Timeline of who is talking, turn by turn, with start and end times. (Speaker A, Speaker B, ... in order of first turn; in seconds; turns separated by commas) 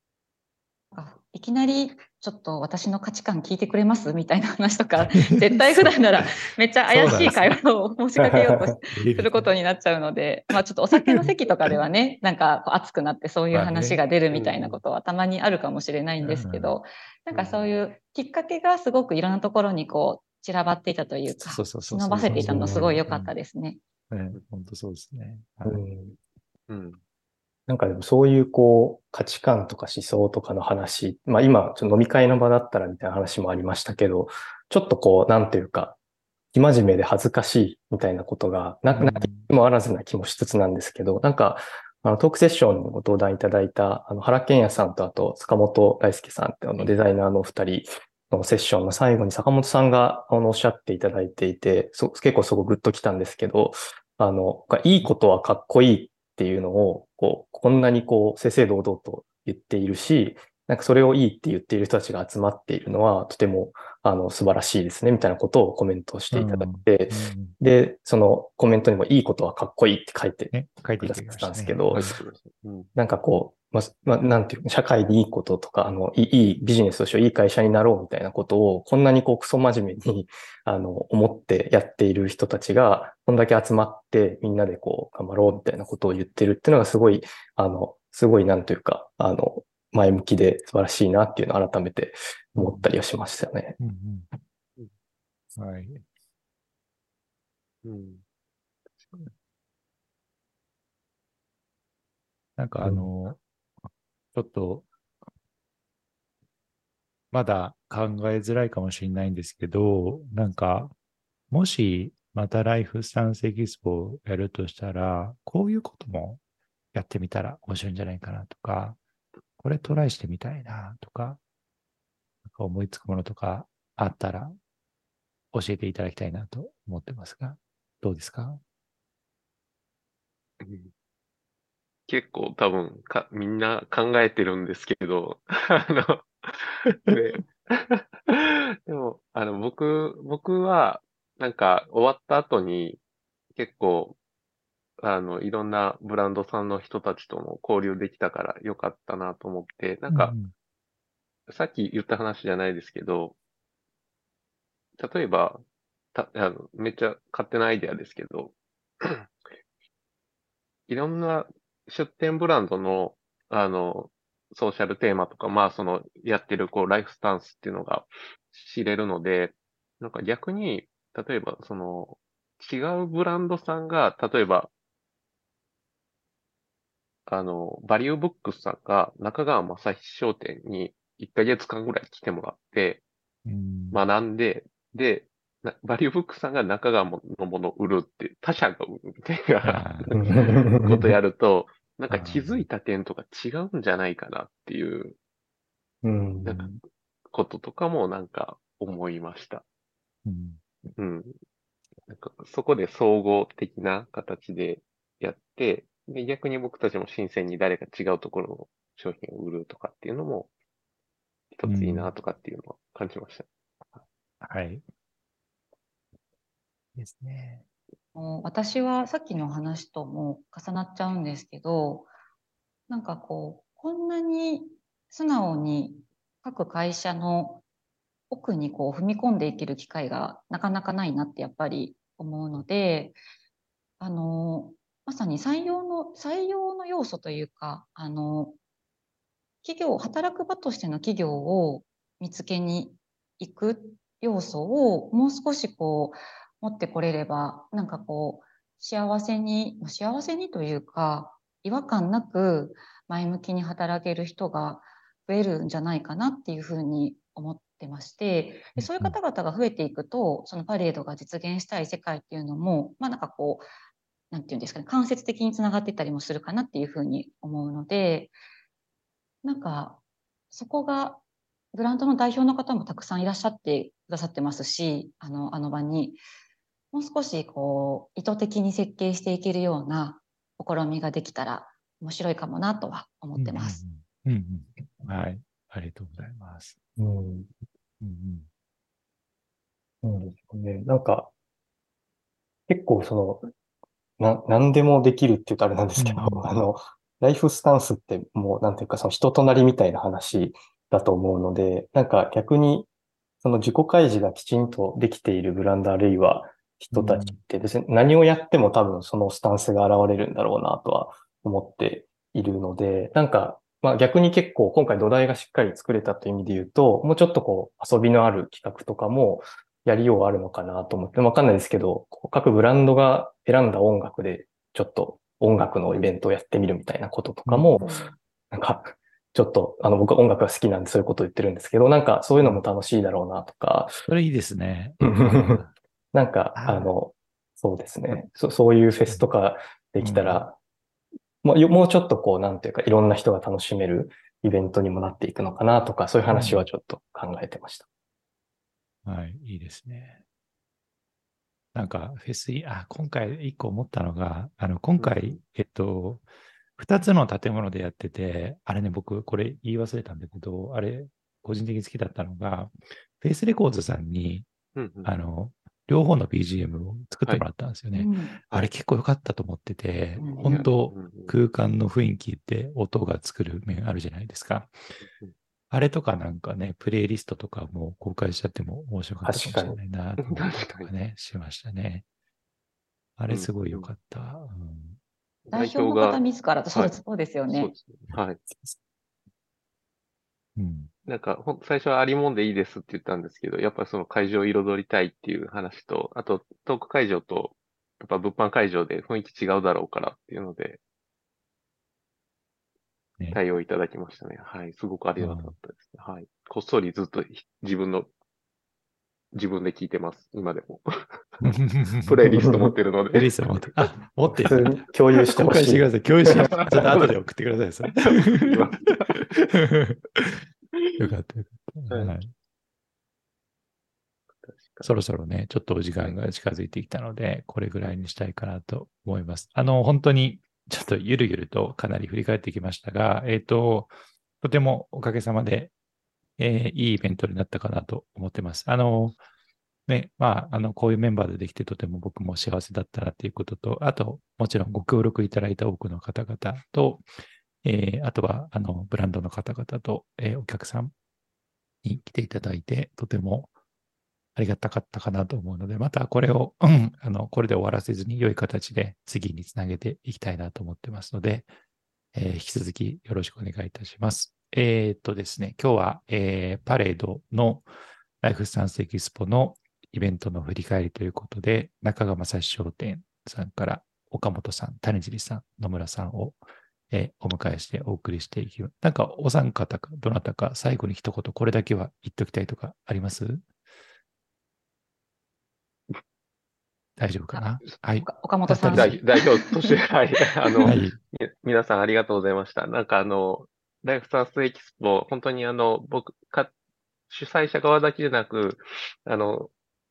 Speaker A: 0.9-23.8, Speaker B: 5.0-6.0, Speaker B: 6.9-7.6, Speaker C: 8.2-8.8, Speaker B: 8.9-9.5, Speaker B: 13.5-14.0, Speaker D: 14.3-14.8, Speaker B: 16.2-16.8, Speaker B: 21.3-23.3, Speaker C: 22.3-22.9, Speaker B: 24.1-25.8, Speaker C: 25.6-26.2, Speaker D: 26.7-27.0, Speaker C: 27.7-36.0, Speaker C: 36.5-72.0, Speaker B: 38.9-39.5, Speaker B: 66.3-67.5, Speaker B: 70.5-72.2, Speaker D: 71.9-72.9, Speaker C: 73.0-93.8, Speaker B: 92.5-92.9, Speaker B: 93.8-94.3, Speaker B: 95.5-96.0, Speaker D: 97.8-98.2, Speaker D: 99.0-99.3, Speaker B: 102.6-103.4, Speaker C: 102.8-103.1, Speaker B: 104.3-104.9, Speaker B: 107.3-110.9, Speaker B: 111.5-116.4, Speaker B: 116.9-119.0, Speaker B: 119.6-121.4, Speaker B: 122.4-124.5, Speaker B: 125.5-128.6, Speaker D: 130.6-130.9, Speaker D: 132.1-143.0, Speaker D: 143.5-144.2, Speaker D: 145.0-150.3, Speaker B: 150.1-150.5, Speaker D: 151.5-153.4, Speaker D: 155.0-155.6, Speaker D: 156.1-159.3, Speaker D: 160.9-174.7, Speaker D: 177.3-183.0, Speaker B: 183.4-184.0, Speaker D: 183.9-195.2, Speaker B: 189.6-190.3, Speaker C: 190.1-191.2, Speaker B: 192.1-192.7, Speaker C: 196.0-196.7, Speaker D: 196.4-196.8, Speaker D: 197.3-199.6, Speaker B: 200.2-200.6, Speaker D: 200.9-201.3, Speaker D: 202.1-210.5, Speaker D: 211.5-213.5, Speaker B: 211.6-212.1, Speaker B: 214.4-214.8, Speaker B: 216.9-217.6, Speaker A: 218.1-222.1, Speaker A: 222.9-227.6, Speaker A: 228.3-233.2, Speaker A: 234.0-238.5, Speaker A: 239.6-263.6, Speaker B: 258.8-259.2, Speaker A: 264.3-268.3, Speaker A: 269.4-270.0, Speaker A: 270.5-271.2, Speaker A: 271.7-276.2, Speaker A: 276.9-283.8, Speaker B: 283.4-286.8, Speaker C: 287.0-287.5, Speaker B: 288.0-288.5, Speaker C: 290.0-291.3, Speaker C: 292.7-293.5, Speaker C: 294.2-302.9, Speaker B: 296.0-296.4, Speaker C: 303.4-327.9, Speaker B: 306.9-307.4, Speaker B: 327.4-327.8, Speaker A: 327.8-328.1, Speaker C: 328.5-333.9, Speaker B: 332.4-332.6, Speaker B: 334.1-335.7, Speaker C: 335.0-335.6, Speaker C: 336.1-340.6, Speaker B: 336.6-336.9, Speaker B: 340.0-340.4, Speaker C: 341.4-347.9, Speaker B: 346.3-346.7, Speaker B: 349.0-350.2, Speaker B: 351.7-356.2, Speaker D: 355.0-355.4, Speaker B: 356.8-364.5, Speaker D: 364.8-365.1, Speaker B: 365.0-374.7, Speaker A: 367.9-368.4, Speaker A: 370.2-370.6, Speaker D: 370.4-371.4, Speaker D: 375.0-375.3, Speaker B: 375.7-382.0, Speaker C: 379.2-379.8, Speaker D: 380.2-380.9, Speaker B: 383.2-385.0, Speaker D: 383.3-383.9, Speaker D: 385.4-386.9, Speaker A: 385.5-387.7, Speaker D: 387.5-388.4, Speaker B: 390.6-390.9, Speaker D: 391.1-400.8, Speaker D: 403.3-408.1, Speaker B: 405.2-405.5, Speaker D: 409.3-411.4, Speaker B: 411.4-412.2, Speaker D: 412.0-413.9, Speaker C: 412.2-412.7, Speaker B: 413.1-418.6, Speaker C: 414.4-416.4, Speaker D: 416.6-417.1, Speaker D: 417.9-419.3, Speaker B: 419.1-420.4, Speaker D: 420.8-421.1, Speaker B: 421.0-422.3, Speaker D: 424.4-424.9, Speaker B: 424.8-435.7, Speaker B: 436.4-439.2, Speaker B: 439.9-447.0, Speaker B: 447.6-450.9, Speaker B: 451.8-453.5, Speaker B: 454.4-461.5, Speaker B: 462.1-467.6, Speaker B: 468.2-476.4, Speaker B: 476.9-483.5, Speaker B: 487.0-489.0, Speaker A: 487.3-489.7, Speaker D: 488.7-496.5, Speaker A: 490.4-490.7, Speaker B: 490.6-491.0, Speaker D: 497.1-499.5